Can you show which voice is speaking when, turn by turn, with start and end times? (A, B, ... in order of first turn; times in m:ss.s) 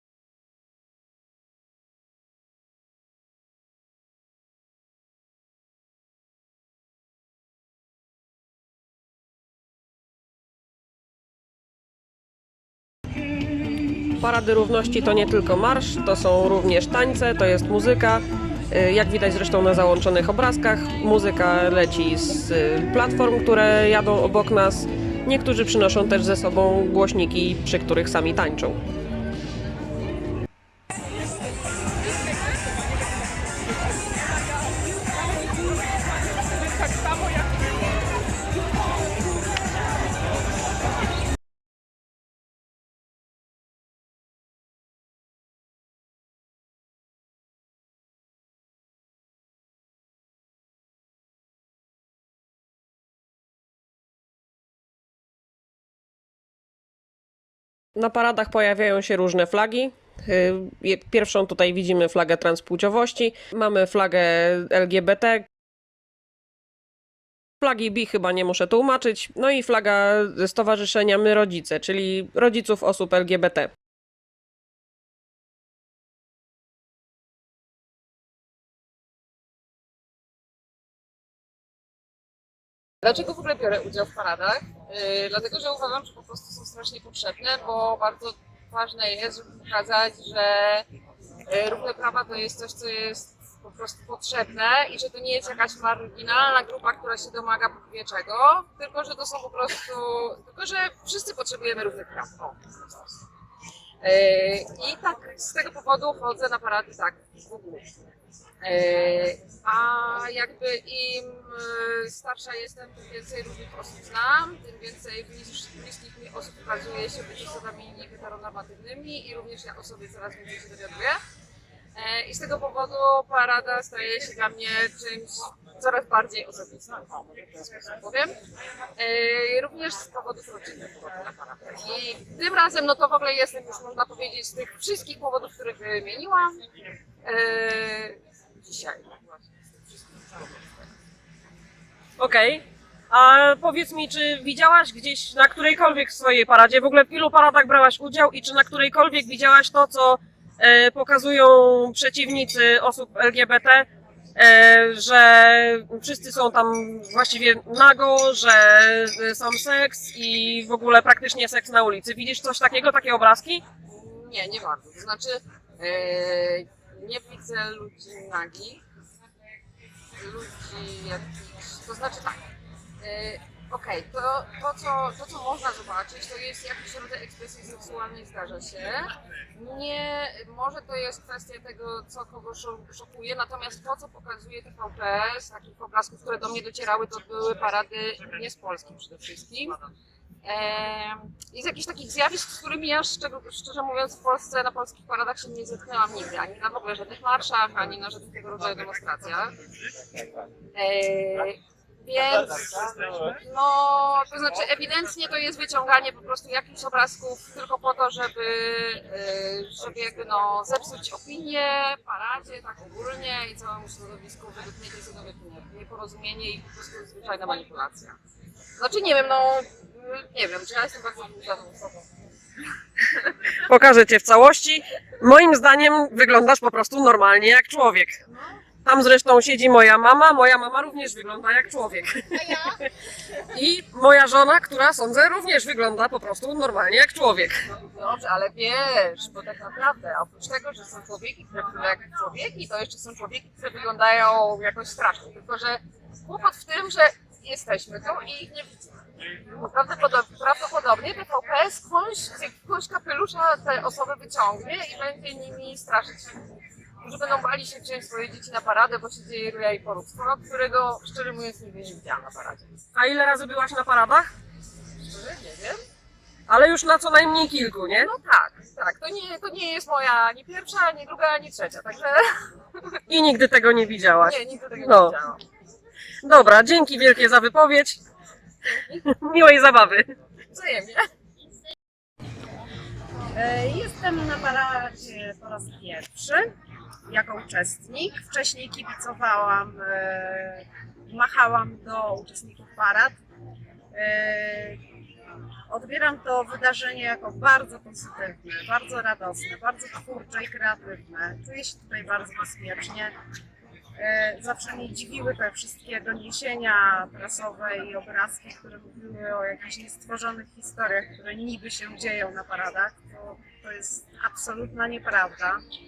0:14.2-0:28.8 A
0:58.0-1:05.5 A
1:07.6-1:13.7 A
1:23.0-1:30.9 B
1:31.5-1:43.2 B
1:44.0-1:47.9 B
1:48.6-2:01.2 B
2:01.9-2:08.4 B
2:09.0-2:16.6 B
2:17.2-2:20.6 B
2:22.2-2:43.6 A
2:43.8-2:48.8 B
2:50.2-2:52.4 B
2:53.0-3:09.9 B
3:10.4-3:19.5 B
3:20.7-3:38.2 B
3:38.8-3:42.1 B
3:43.6-3:48.2 A
3:48.8-3:52.8 A
3:53.4-3:57.6 A
3:57.7-4:16.4 B
4:17.0-4:22.7 B
4:22.9-4:24.3 A
4:25.0-4:25.8 B
4:26.5-4:28.1 A
4:27.9-4:33.0 B
4:33.1-4:35.2 A
4:34.2-4:35.4 B
4:36.2-4:38.0 A
4:38.7-4:39.0 B
4:39.0-4:40.1 A
4:40.5-4:41.0 B
4:43.3-4:46.5 C
4:47.1-4:53.2 C
4:53.9-4:54.8 C
4:55.7-5:03.1 C
5:04.0-5:15.6 C